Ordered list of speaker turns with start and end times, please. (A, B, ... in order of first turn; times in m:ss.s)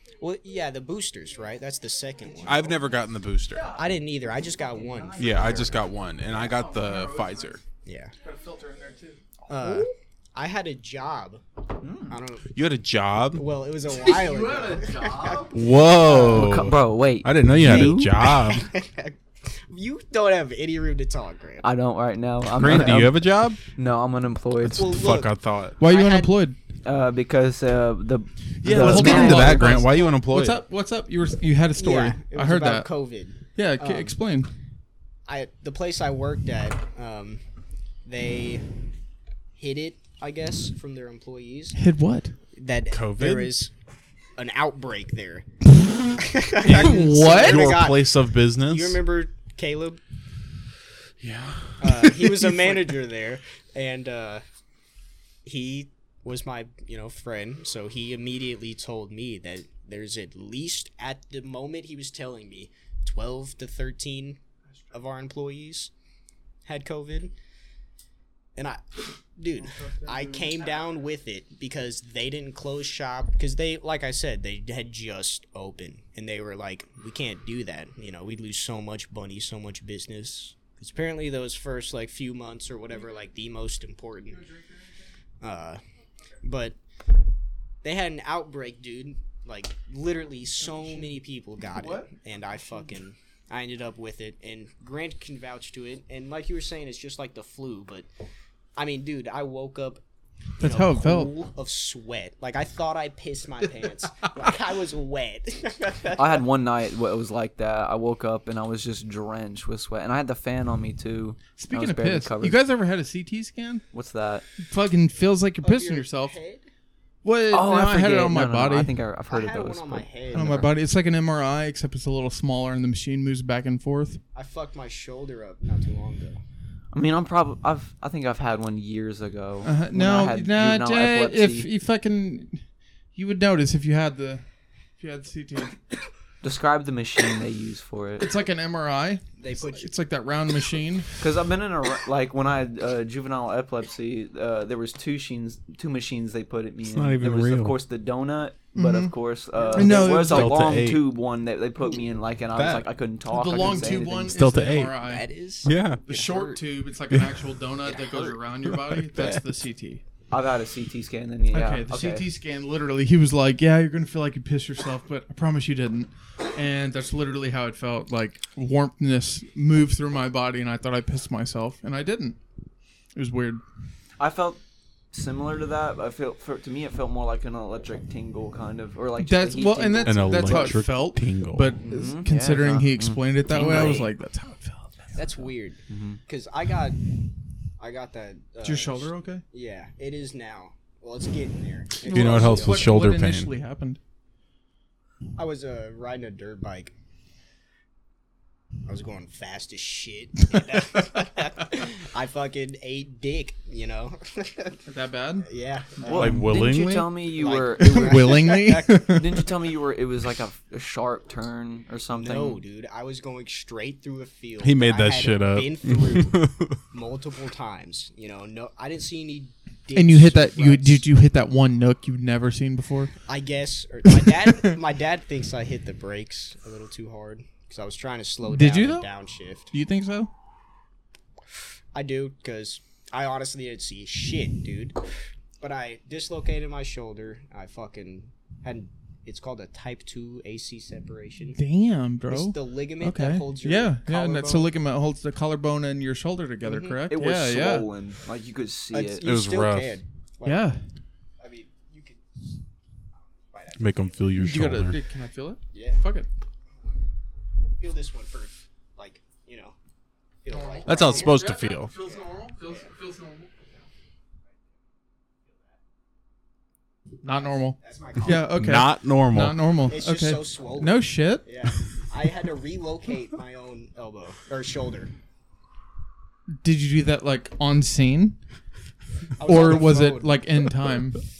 0:00.2-0:02.8 A
0:02.4-0:03.7 B
0:03.5-0:05.7 C
0:03.7-0:06.6 A
0:05.2-0:07.6 B
0:06.3-0:07.6 C
0:07.8-0:08.1 A
0:08.2-0:09.9 C
0:09.5-0:11.4 A
0:11.8-0:12.2 D
0:12.1-0:12.5 A
0:12.5-0:13.4 B
0:13.4-0:16.6 A
0:13.9-0:15.6 C
0:15.5-0:18.7 B
0:16.2-0:18.2 D
0:17.6-0:21.7 A
0:21.6-0:24.9 D
0:22.6-0:23.6 B
0:24.6-0:25.8 B
0:24.7-0:26.4 A
0:25.8-0:26.6 C
0:26.8-0:29.8 D
0:28.6-0:32.9 C
0:28.6-0:30.6 B
0:31.8-0:34.2 A
0:33.6-0:34.5 C
0:35.3-0:37.4 A
0:38.0-0:38.7 A
0:39.6-0:41.8 A
0:41.8-0:42.4 C
0:42.6-0:43.7 A
0:42.9-0:43.6 B
0:44.4-0:45.4 A
0:46.1-0:50.0 A
0:46.6-0:49.0 B
0:46.6-0:47.8 C
0:51.2-0:52.8 B
0:51.8-0:54.4 A
0:55.4-1:04.4 A
1:04.9-1:05.9 A
1:06.6-1:07.3 A
1:08.6-1:24.4 A
1:09.6-1:10.7 C
1:24.3-1:25.0 C
1:25.4-1:25.8 A
1:26.4-1:26.8 A
1:27.8-1:38.1 A
1:30.6-1:31.1 C
1:31.7-1:32.9 C
1:38.8-1:40.0 A
1:40.6-1:41.3 C
1:40.6-1:46.4 A
1:46.2-1:52.6 D
1:51.6-1:53.8 C
1:53.9-1:54.4 D
1:54.6-1:56.4 C
1:55.6-1:56.7 A
1:57.2-1:58.9 C
1:57.5-2:00.6 D
1:59.3-2:00.7 A
2:00.3-2:04.2 C
2:04.3-2:06.4 A
2:06.9-2:11.7 D
2:09.6-2:12.6 C
2:13.2-2:14.4 C
2:15.0-2:15.8 C
2:16.4-2:18.3 D
2:18.2-2:21.1 C
2:19.4-2:19.9 A
2:21.2-2:34.4 D
2:26.8-2:27.8 B
2:28.7-2:29.2 C
2:29.6-2:30.1 A
2:29.7-2:30.7 C
2:30.0-2:31.0 B
2:32.5-2:32.9 B
2:33.3-2:35.3 C
2:34.2-2:35.0 B
2:35.0-2:36.6 A
2:35.6-2:36.0 B
2:36.1-2:40.0 C
2:38.6-2:39.4 B
2:40.3-2:42.3 D
2:41.5-2:52.4 C
2:53.2-2:53.6 C
2:54.2-2:54.6 D
2:55.1-3:00.8 D
2:59.2-3:05.3 C
3:00.0-3:01.8 B
3:01.9-3:04.1 D
3:03.6-3:04.1 A
3:05.2-3:07.1 A
3:05.9-3:06.2 D
3:07.8-3:13.0 A
3:08.6-3:09.4 C
3:12.0-3:14.0 C
3:12.0-3:13.5 B
3:15.4-3:16.9 A
3:18.9-3:24.8 A
3:24.9-3:25.5 C
3:25.4-3:26.3 A
3:26.0-3:26.6 C
3:26.0-3:32.6 D
3:26.1-3:27.1 B
3:27.3-3:29.1 A
3:27.8-3:29.4 C
3:32.1-3:41.0 A
3:34.6-3:36.8 B
3:40.0-3:43.1 C
3:43.3-3:49.7 A
3:44.1-3:44.7 C
3:48.4-3:49.1 C
3:49.7-3:50.3 C
3:51.9-3:55.0 A
3:55.6-4:01.6 A
4:01.6-4:07.9 C
4:02.3-4:04.7 A
4:06.6-4:07.0 A
4:07.1-4:09.3 D
4:08.9-4:10.7 A
4:09.2-4:10.0 B
4:10.4-4:10.8 C
4:11.4-4:12.4 A
4:13.5-4:14.2 A
4:13.8-4:15.0 B
4:14.4-4:16.3 C
4:15.7-4:16.0 A
4:17.8-4:19.8 A
4:20.4-4:21.4 A
4:20.5-4:23.5 C
4:20.8-4:21.9 B
4:22.0-4:22.9 A
4:27.2-4:31.5 C
4:27.8-4:28.6 A
4:28.2-4:29.6 B
4:29.9-4:35.1 A
4:36.6-4:38.4 C
4:39.4-4:40.4 A
4:39.4-4:41.2 C